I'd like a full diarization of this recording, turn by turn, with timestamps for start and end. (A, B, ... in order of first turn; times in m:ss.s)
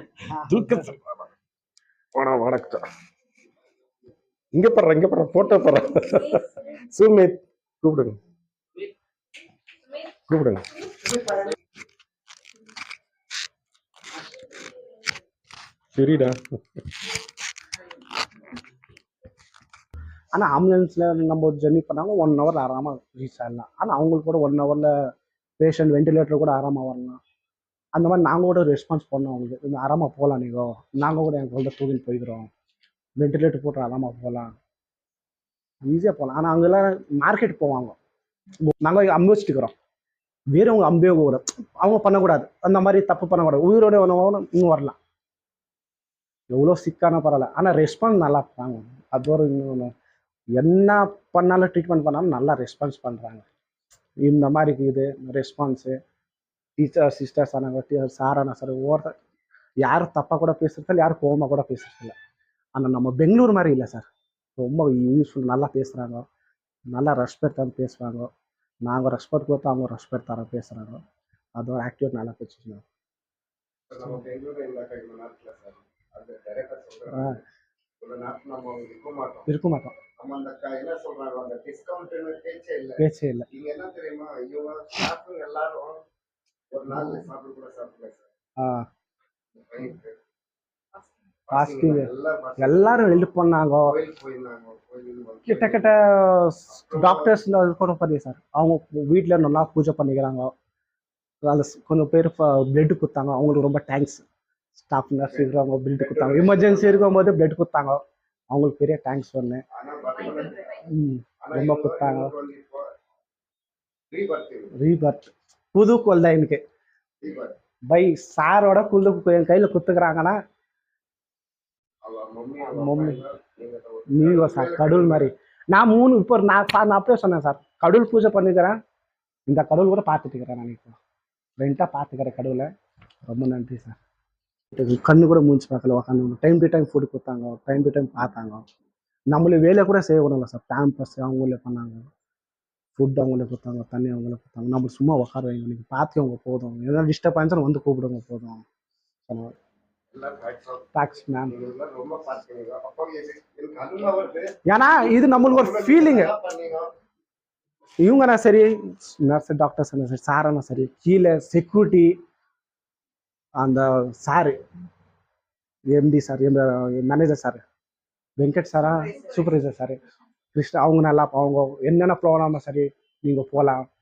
0:00.4-0:00.9 A
0:00.5-0:01.0 B
0:02.2-0:02.8 B
0:02.2-0:02.7 A
0:04.6-0:06.4 B
0:05.4-0:05.6 A
0:07.0-0:08.1 B
0:10.3-0:10.7 B
0:16.0-0:16.6 B
0:20.3-0:24.9 A
0:25.6-0:27.2 A
0:28.0-0:32.5 A
0:33.2-0:34.5 A
0:35.8-0:38.0 A
0:38.6-0:39.7 A
0:40.5-0:45.0 A
0:46.5-0:49.9 A
0:50.6-0:53.4 A
0:54.2-0:55.9 A
0:56.8-0:59.1 A
0:59.8-1:02.1 A
1:02.7-1:06.2 A
1:06.9-1:08.3 A
1:08.8-1:11.0 A
1:11.6-1:12.8 A
1:13.9-1:17.3 C
1:17.1-1:17.4 A
1:18.0-1:19.5 C
1:19.5-1:20.0 A
1:20.2-1:26.0 C
1:23.0-1:23.4 A
1:26.7-1:28.2 C
1:28.6-1:28.8 A
1:29.6-1:30.1 C
1:31.5-1:33.2 C
1:31.5-1:33.9 A
1:33.8-1:35.9 C
1:35.4-1:40.5 A
1:36.8-1:37.3 C
1:41.4-1:44.2 A
1:44.8-1:48.0 A
1:46.0-1:47.1 C
1:48.5-1:49.6 A
1:49.7-1:50.8 C
1:50.8-1:52.3 A
1:51.4-1:52.9 C
1:54.1-1:54.7 C
1:54.8-1:56.6 A
1:57.2-1:57.6 C
1:57.9-2:00.4 A
2:02.0-2:05.3 C
2:02.7-2:03.2 A
2:04.1-2:08.7 A
2:09.5-2:11.0 A
2:11.6-2:12.7 A
2:13.3-2:14.0 A
2:14.7-2:18.6 A
2:19.3-2:22.1 A
2:23.0-2:28.6 A
2:29.3-2:29.5 A
2:30.1-2:30.9 C
2:30.9-2:31.6 A
2:31.5-2:34.6 C
2:34.7-2:36.3 A
2:35.3-2:36.9 C
2:38.0-2:42.2 A
2:43.6-2:44.6 A
2:45.9-2:47.6 A
2:48.4-2:50.0 A
2:50.5-2:53.8 A